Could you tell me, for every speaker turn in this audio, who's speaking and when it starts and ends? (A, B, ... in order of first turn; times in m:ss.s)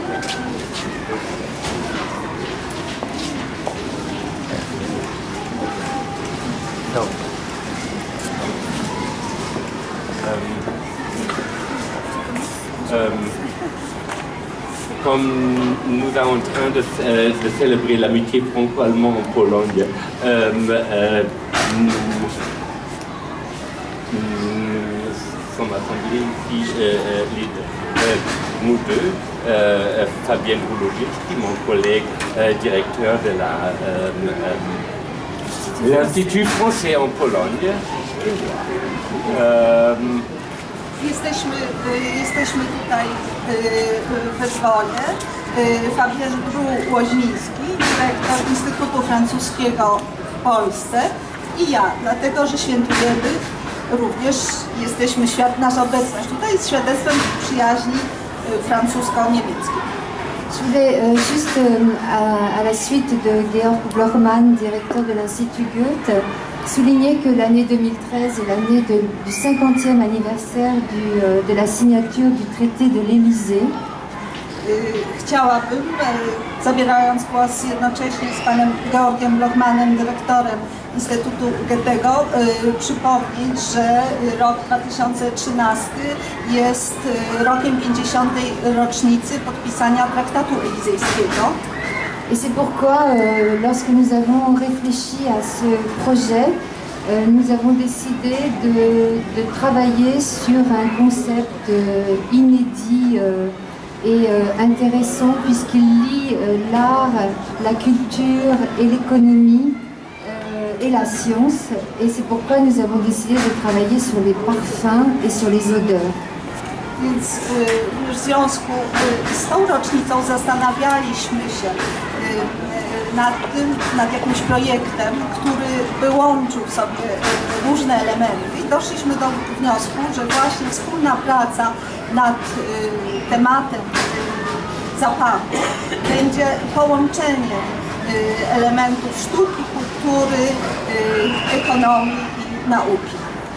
0:10.2-0:10.7 A
0:12.8-0:13.4 A
0:15.0-0:22.4 A
0:24.1-0:34.8 A
0:35.8-0:40.3 A
0:41.0-0:53.4 B
0:53.9-0:59.9 B
1:00.5-1:13.7 C
1:14.6-1:31.6 B
1:32.3-1:36.6 C
1:37.1-1:56.2 C
1:57.0-2:23.2 B